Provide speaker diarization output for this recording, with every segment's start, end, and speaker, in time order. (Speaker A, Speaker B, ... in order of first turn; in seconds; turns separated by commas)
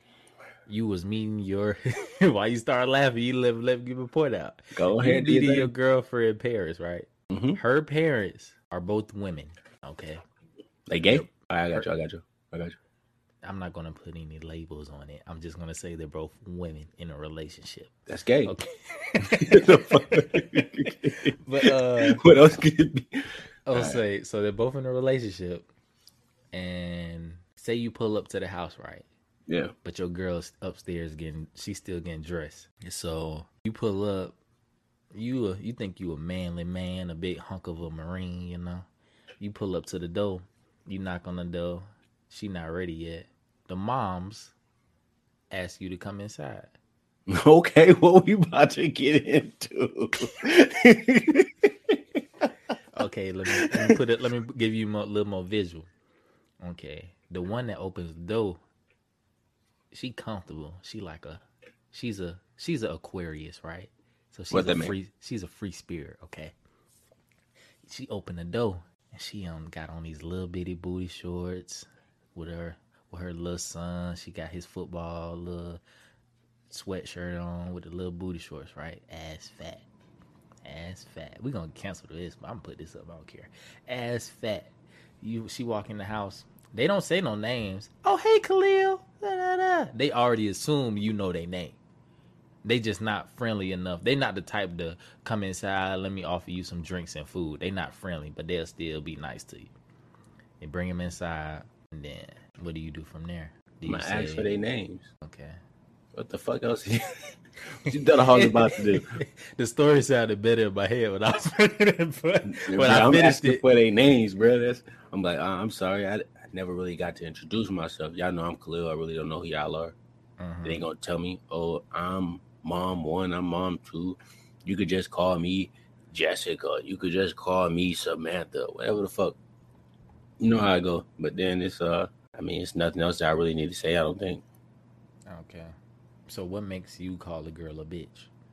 Speaker A: 0.7-10.2, Speaker B: 4.8-5.7, Speaker B: 7.3-7.6, Speaker B: 10.9-12.8, Speaker A: 11.1-11.9, Speaker A: 13.4-17.9, Speaker B: 18.1-18.5, Speaker A: 18.5-20.1, Speaker B: 19.3-24.0, Speaker A: 21.4-22.2, Speaker A: 23.7-25.7, Speaker A: 26.5-29.1, Speaker A: 29.8-34.4, Speaker A: 35.1-38.9, Speaker A: 39.4-44.5, Speaker A: 45.5-46.7, Speaker B: 47.3-52.0, Speaker A: 52.9-55.9, Speaker B: 53.6-54.0, Speaker A: 56.6-58.6, Speaker A: 59.9-66.5, Speaker B: 64.5-65.0, Speaker A: 67.8-75.8, Speaker A: 76.7-79.8, Speaker A: 80.6-91.8, Speaker A: 92.6-99.7, Speaker A: 100.6-104.6, Speaker B: 103.9-105.1, Speaker A: 105.2-105.6, Speaker B: 106.2-107.2, Speaker B: 107.8-109.1, Speaker A: 108.3-113.6, Speaker B: 112.5-120.0, Speaker A: 120.4-120.9, Speaker B: 120.7-129.4, Speaker B: 130.4-134.4, Speaker A: 135.3-135.7, Speaker A: 136.3-138.3